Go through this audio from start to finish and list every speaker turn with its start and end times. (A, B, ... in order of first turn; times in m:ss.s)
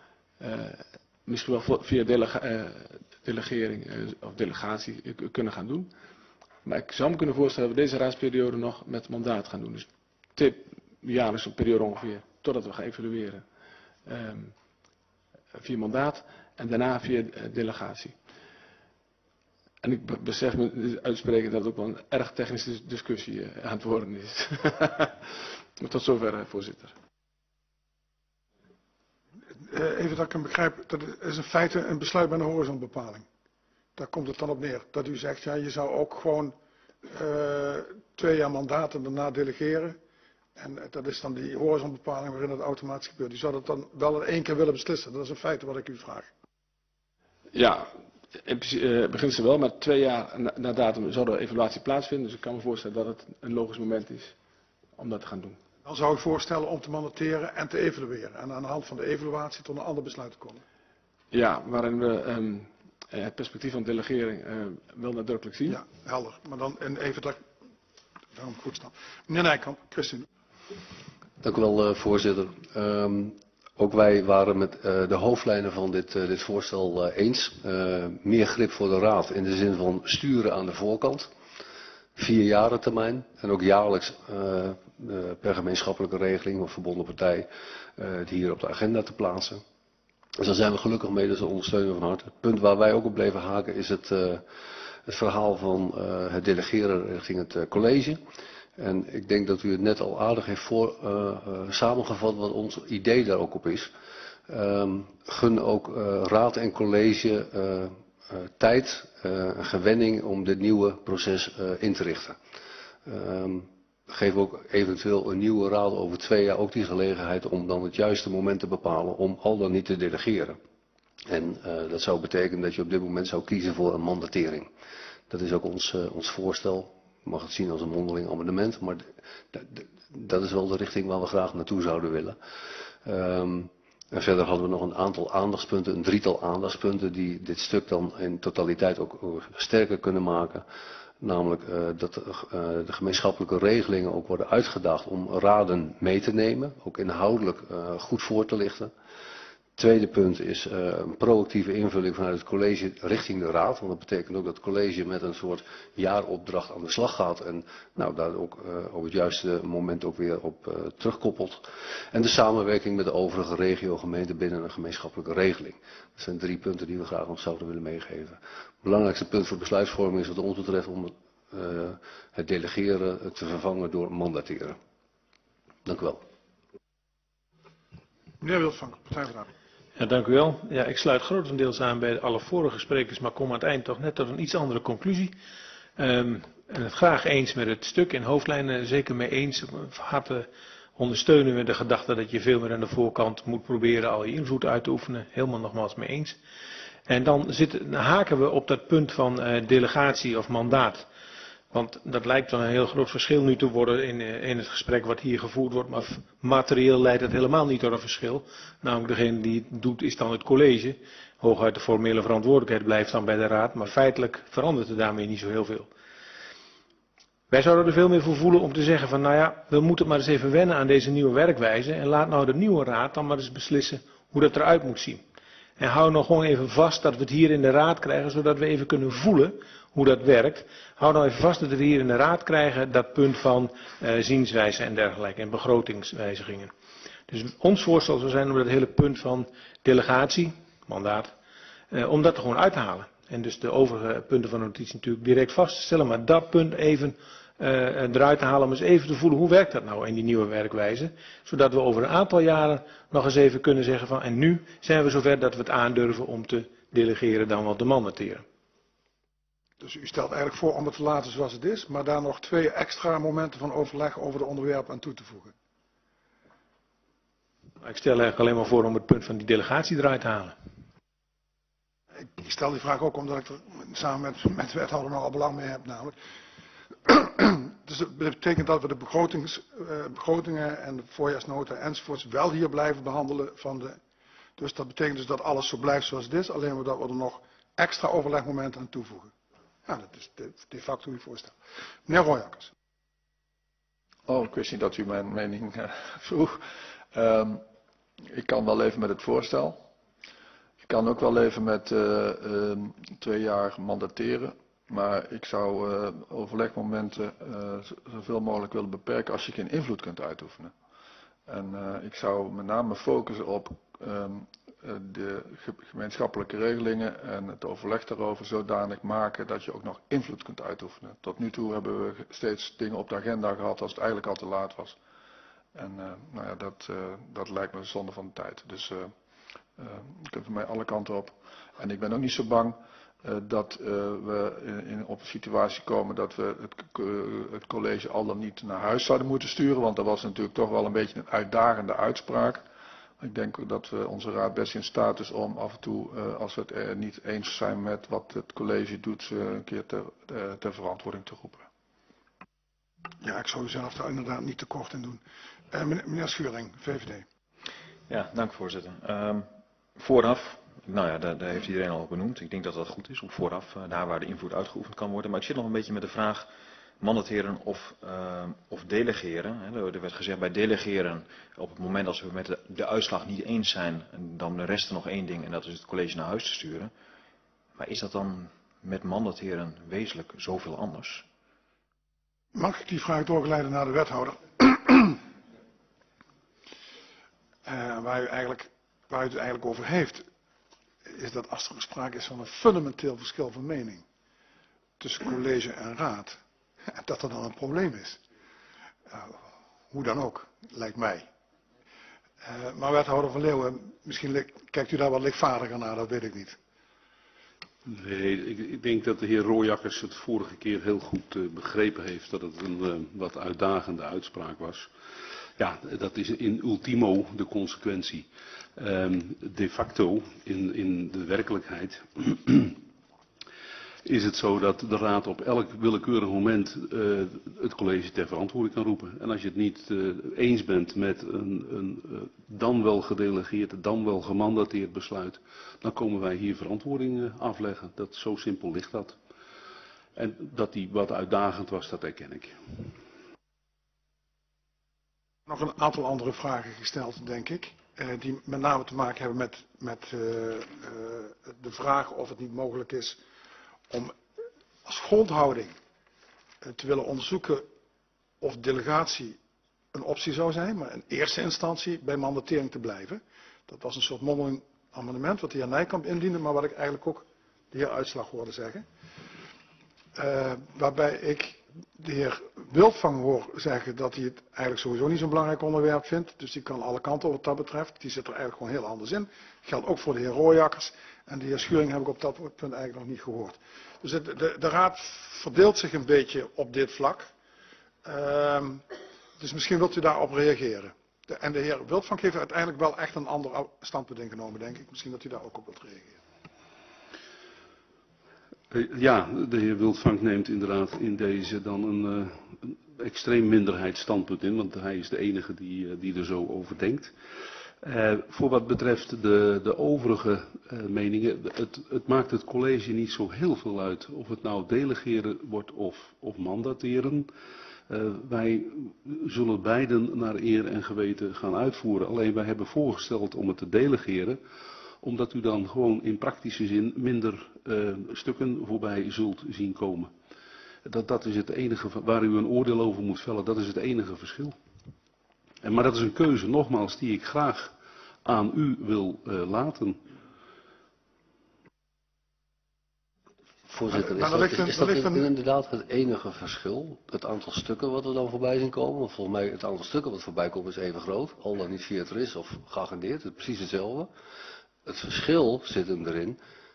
0:00.4-0:05.9 A
0:06.6-0:13.4 A
0:14.0-0:14.5 A
0:15.5-0:18.2 A
0:19.8-0:26.9 A
0:29.7-0:33.3 B
0:34.0-0:40.0 B
0:40.6-0:46.3 B
0:47.5-0:54.3 A
0:55.0-0:55.6 A
0:55.8-1:00.6 B
1:01.3-1:05.8 A
1:05.6-1:07.4 B
1:08.3-1:10.2 B
1:11.4-1:21.3 C
1:22.2-1:29.6 C
1:30.4-1:34.5 C
1:35.0-1:38.2 C
1:38.8-1:43.9 C
1:44.5-1:52.4 C
1:53.0-2:00.6 C
2:01.3-2:04.7 C
2:05.3-2:12.4 C
2:13.0-2:20.6 C
2:21.2-2:28.9 C
2:29.8-2:54.8 C
2:55.8-2:56.2 C
2:58.4-2:59.5 B
3:00.0-3:05.3 D
3:06.0-3:16.4 D
3:17.1-3:21.1 D
3:21.7-3:35.9 D
3:37.5-3:45.2 D
3:45.8-3:56.7 D
3:57.3-4:01.3 D
4:01.9-4:18.4 D
4:19.8-4:25.5 B
4:27.8-4:30.6 D
4:32.2-4:36.2 B
4:37.0-4:44.0 B
4:44.6-4:49.3 B
4:49.8-4:52.7 B
4:54.3-4:57.6 E
4:58.2-4:59.8 E
5:00.8-5:10.7 E
5:11.5-5:25.0 E
5:25.7-5:29.1 E
5:29.8-5:42.6 E
5:43.2-5:51.7 E
5:53.2-5:57.2 B
5:58.1-6:06.5 F
6:07.0-6:16.9 F
6:17.8-6:21.2 F
6:22.5-6:25.2 B
6:27.6-6:30.3 B
6:31.0-6:34.0 B
6:35.0-6:36.4 B
6:36.9-6:38.2 B
6:39.1-6:41.3 B
6:42.4-6:46.6 B
6:47.8-7:02.8 G
7:04.0-7:19.2 G
7:20.1-7:22.9 G
7:25.5-7:33.2 B
7:33.9-7:34.2 B
7:34.8-7:35.8 B
7:36.6-7:37.7 B
7:38.4-7:39.4 B
7:39.9-7:48.8 B
7:50.1-8:07.3 B
8:08.0-8:08.8 B
8:09.4-8:16.2 B
8:18.7-8:27.1 G
8:27.7-8:37.3 G
8:37.9-8:44.4 G
8:45.0-8:50.1 G
8:50.8-8:54.6 G
8:55.6-9:00.2 G
9:03.7-9:14.1 C
9:03.9-9:05.3 B
9:14.8-9:16.4 C